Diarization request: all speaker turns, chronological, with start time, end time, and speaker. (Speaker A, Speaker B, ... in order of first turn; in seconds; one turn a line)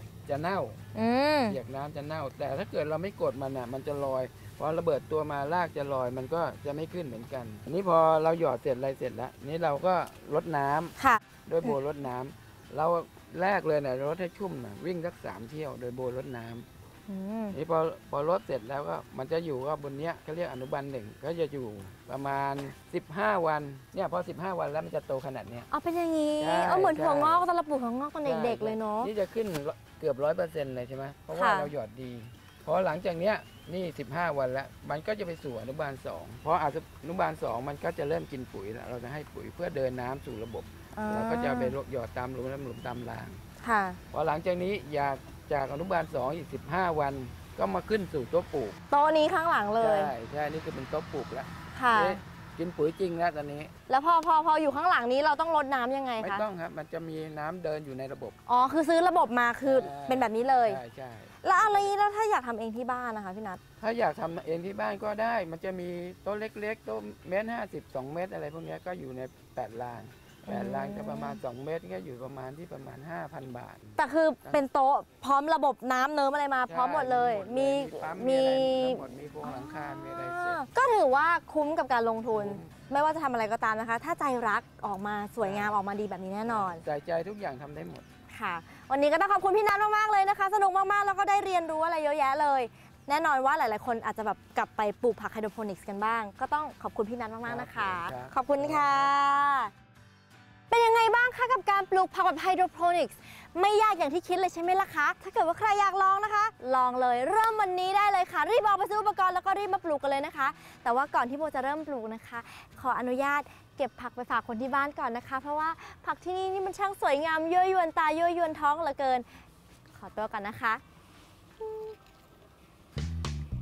Speaker A: 0.3-0.8
Speaker B: 0.9-1.6
Speaker A: 1.5-16.6
Speaker B: 11.0-11.7
Speaker B: 17.1-17.6
Speaker A: 17.5-25.7
Speaker B: 25.7-29.1
Speaker A: 26.4-27.4
Speaker A: 28.2-43.4
Speaker B: 31.3-31.7
Speaker B: 40.9-41.7
Speaker B: 43.6-44.0
Speaker A: 44.1-48.8
Speaker B: 48.9-50.1
Speaker A: 49.8-53.7
Speaker B: 51.7-52.2
Speaker B: 53.9-56.4
Speaker A: 56.2-58.4
Speaker B: 58.5-60.8
Speaker A: 59.6-61.9
Speaker B: 61.4-63.6
Speaker A: 63.8-74.6
Speaker B: 70.5-71.4
Speaker B: 74.0-86.8
Speaker A: 76.7-80.6
Speaker A: 82.3-82.7
Speaker A: 85.4-85.7
Speaker A: 86.5-88.0
Speaker B: 88.3-99.7
Speaker A: 97.4-99.1
Speaker B: 100.7-119.2
Speaker B: 119.9-120.8
Speaker B: 121.6-121.9